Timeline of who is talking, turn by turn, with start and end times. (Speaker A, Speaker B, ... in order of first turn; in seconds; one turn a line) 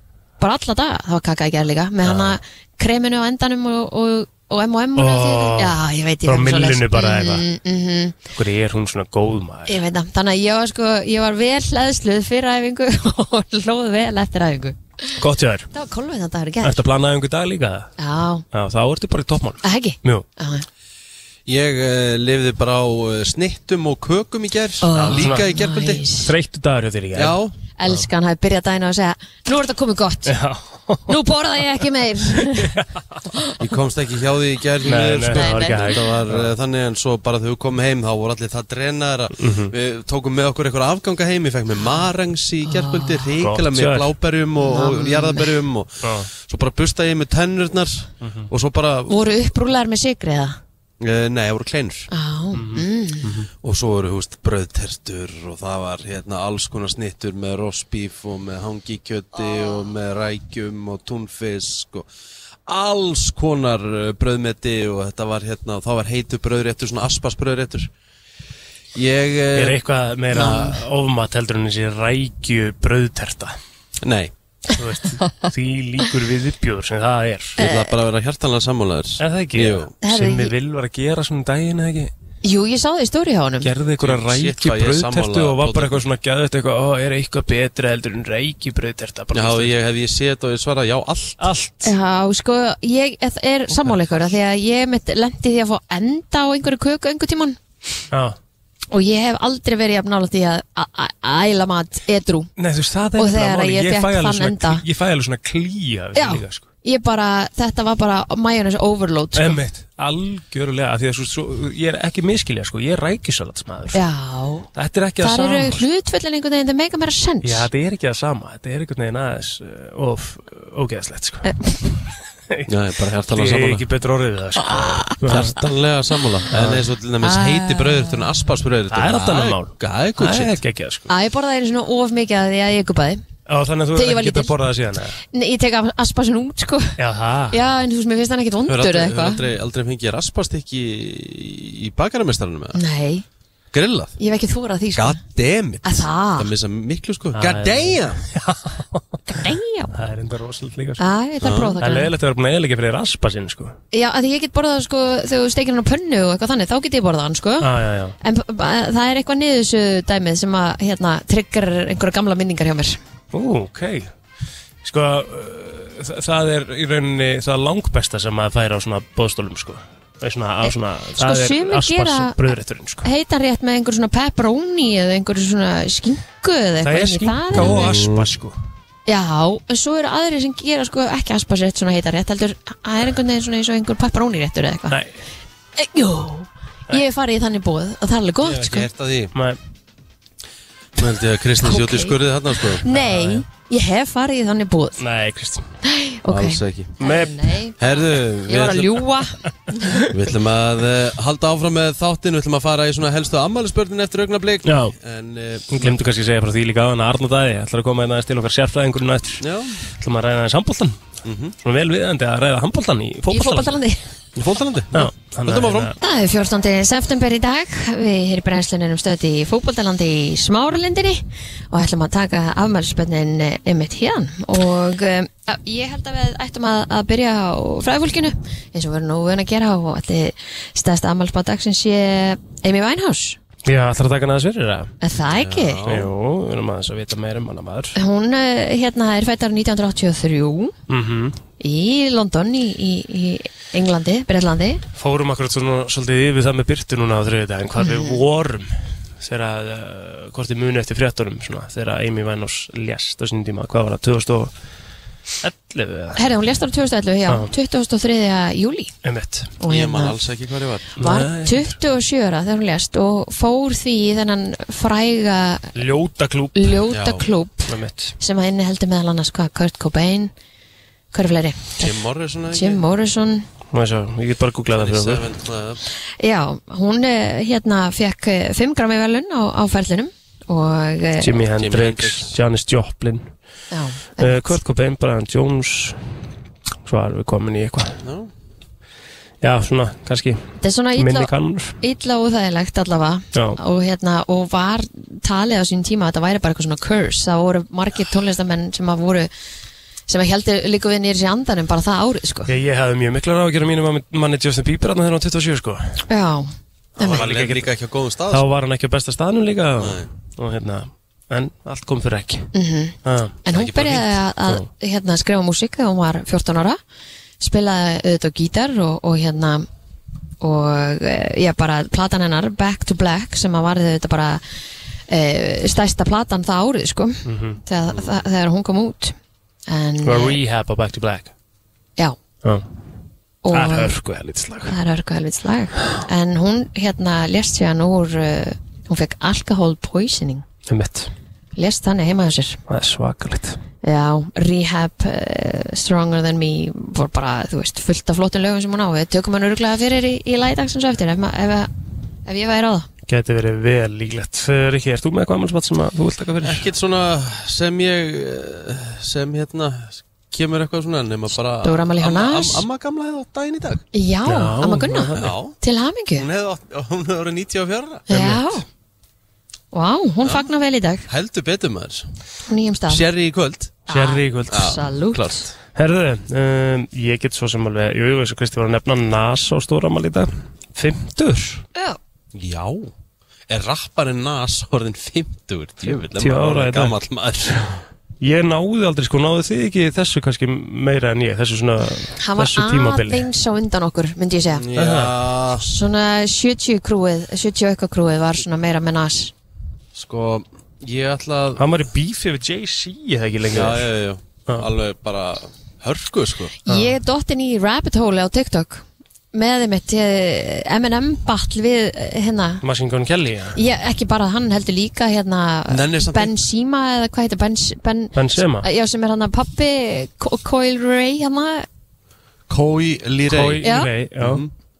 Speaker A: 0.4-8.2
Speaker B: 2.0-2.4
Speaker B: 5.0-7.4
Speaker B: 8.3-9.8
Speaker A: 9.7-15.1
Speaker B: 15.2-15.7
Speaker A: 15.7-16.8
Speaker B: 16.6-17.9
Speaker A: 18.0-18.4
Speaker B: 18.5-20.2
Speaker A: 19.6-20.6
Speaker C: 21.4-26.0
Speaker A: 24.8-26.3
Speaker B: 24.9-25.5
Speaker B: 26.2-27.4
Speaker C: 27.1-27.5
Speaker A: 27.8-30.3
Speaker B: 30.3-31.1
Speaker A: 31.1-32.7
Speaker B: 32.4-32.9
Speaker C: 33.6-49.1
Speaker B: 34.8-36.5
Speaker A: 35.3-36.0
Speaker B: 39.4-39.7
Speaker A: 42.6-43.3
Speaker B: 43.4-44.1
Speaker A: 44.6-45.5
Speaker B: 46.0-46.3
Speaker B: 48.2-48.5
Speaker A: 49.1-50.6
Speaker C: 51.0-52.1
Speaker A: 52.1-53.3
Speaker B: 52.5-53.5
Speaker C: 53.5-62.1
Speaker C: 62.6-67.9
Speaker C: 68.9-69.8
Speaker B: 69.5-73.5
Speaker A: 70.3-70.8
Speaker C: 74.0-74.3
Speaker B: 74.7-77.6
Speaker A: 75.2-75.4
Speaker C: 77.6-79.9
Speaker A: 77.6-77.9
Speaker B: 79.2-82.1
Speaker A: 80.0-80.5
Speaker A: 82.4-83.7
Speaker B: 83.6-89.7
Speaker C: 84.0-86.0
Speaker C: 89.3-91.5
Speaker B: 91.4-91.9
Speaker A: 91.8-97.6
Speaker B: 98.1-98.4
Speaker A: 98.9-102.5
Speaker B: 102.6-106.6
Speaker A: 103.2-104.8
Speaker A: 106.1-109.6
Speaker B: 109.3-114.0
Speaker A: 113.9-114.7
Speaker B: 114.7-115.8
Speaker A: 115.2-117.7
Speaker B: 117.4-121.5
Speaker A: 121.4-121.8
Speaker C: 122.7-123.8
Speaker B: 123.3-125.5
Speaker A: 124.6-125.2
Speaker C: 125.2-130.6
Speaker B: 126.5-126.8
Speaker A: 127.2-128.3
Speaker B: 128.9-131.1
Speaker A: 131.1-133.2
Speaker B: 133.5-135.2
Speaker A: 133.9-134.5
Speaker A: 135.3-137.0
Speaker B: 137.0-137.6
Speaker A: 137.5-139.4
Speaker C: 138.7-142.8
Speaker A: 142.7-143.2
Speaker C: 143.7-144.1
Speaker A: 144.2-145.2
Speaker C: 144.9-148.2
Speaker A: 145.8-146.5
Speaker B: 147.3-149.2
Speaker A: 149.3-149.9
Speaker B: 149.9-151.0
Speaker A: 151.0-152.1
Speaker C: 151.4-151.8
Speaker B: 151.8-153.7
Speaker A: 153.9-157.7
Speaker B: 157.6-158.2
Speaker A: 158.2-163.0
Speaker B: 163.3-164.1
Speaker B: 164.8-173.1
Speaker A: 170.6-177.9
Speaker B: 176.8-178.5
Speaker C: 177.5-178.3
Speaker A: 179.1-185.0
Speaker A: 185.8-188.9
Speaker C: 188.4-189.3
Speaker B: 189.3-189.6
Speaker C: 190.9-192.8
Speaker A: 191.6-192.2
Speaker A: 192.8-195.0
Speaker B: 192.9-193.4
Speaker B: 195.0-195.7
Speaker A: 195.8-199.9
Speaker C: 196.3-197.0
Speaker B: 197.0-197.5
Speaker C: 197.8-199.0
Speaker B: 199.8-200.1
Speaker C: 200.1-206.0
Speaker B: 204.6-204.9
Speaker B: 205.7-209.4
Speaker C: 209.4-209.8
Speaker B: 210.0-211.0
Speaker C: 211.2-211.5
Speaker B: 211.6-213.8
Speaker A: 213.3-214.0
Speaker C: 214.3-215.9
Speaker B: 214.9-215.9
Speaker A: 216.0-233.4
Speaker B: 233.7-234.9
Speaker A: 235.0-235.8
Speaker C: 235.3-236.1
Speaker B: 235.8-237.9
Speaker A: 237.9-240.7
Speaker B: 240.9-241.4
Speaker A: 241.6-244.8
Speaker B: 244.9-254.5
Speaker A: 247.8-248.2
Speaker B: 255.4-256.2
Speaker A: 256.1-258.9
Speaker B: 259.0-259.5
Speaker A: 259.6-260.2
Speaker C: 259.7-260.9
Speaker B: 261.0-261.8
Speaker A: 261.0-265.7
Speaker B: 265.8-266.8
Speaker A: 266.6-270.3
Speaker C: 266.9-267.2
Speaker B: 267.7-268.1
Speaker A: 271.1-271.9
Speaker C: 271.8-272.8
Speaker A: 272.5-273.4
Speaker B: 273.7-275.2
Speaker C: 274.7-275.8
Speaker A: 276.2-281.3
Speaker B: 281.2-283.3
Speaker C: 281.5-282.3
Speaker A: 283.7-284.6
Speaker B: 284.2-286.1
Speaker B: 286.9-288.0
Speaker C: 288.0-288.3
Speaker B: 289.4-290.4
Speaker A: 290.6-299.3
Speaker B: 290.9-291.8
Speaker A: 300.1-302.5
Speaker B: 302.5-306.0
Speaker A: 306.1-307.2
Speaker B: 307.0-307.7
Speaker C: 307.0-308.4
Speaker B: 308.3-312.5
Speaker C: 309.8-310.1
Speaker A: 312.5-316.8
Speaker B: 313.0-314.6
Speaker C: 313.5-314.0
Speaker A: 317.4-319.7
Speaker A: 320.4-324.4
Speaker A: 325.1-329.1
Speaker B: 327.2-327.6
Speaker C: 327.9-328.2
Speaker A: 329.7-330.4
Speaker B: 330.0-331.3
Speaker A: 333.4-333.9
Speaker B: 333.5-334.7
Speaker A: 334.6-340.4
Speaker B: 340.7-341.1
Speaker A: 341.6-342.6
Speaker B: 342.7-343.6
Speaker A: 343.8-351.7
Speaker A: 352.2-352.9
Speaker B: 353.1-356.7
Speaker C: 356.4-363.8
Speaker A: 361.6-362.6
Speaker A: 363.9-366.3
Speaker B: 364.2-365.3
Speaker C: 365.1-365.6
Speaker C: 366.2-368.0
Speaker A: 368.1-368.6
Speaker B: 368.1-368.6
Speaker A: 369.7-371.1
Speaker C: 371.1-372.1
Speaker A: 372.5-373.0
Speaker C: 372.9-373.9
Speaker A: 373.9-375.3
Speaker B: 373.9-374.8
Speaker C: 374.5-375.5
Speaker B: 375.7-381.6
Speaker C: 382.3-382.9
Speaker C: 383.5-387.8
Speaker B: 386.1-386.9
Speaker B: 388.2-393.3
Speaker A: 392.2-394.6
Speaker C: 394.5-395.6
Speaker B: 394.7-395.1
Speaker A: 395.6-399.3
Speaker C: 399.9-401.6
Speaker B: 401.6-403.9
Speaker C: 403.5-406.5
Speaker A: 406.6-412.6
Speaker B: 406.7-406.9
Speaker B: 412.6-413.6
Speaker A: 413.5-421.6
Speaker C: 415.7-416.3
Speaker B: 418.1-418.6
Speaker C: 422.5-423.6
Speaker B: 423.3-424.4
Speaker A: 423.6-423.9
Speaker C: 424.2-424.5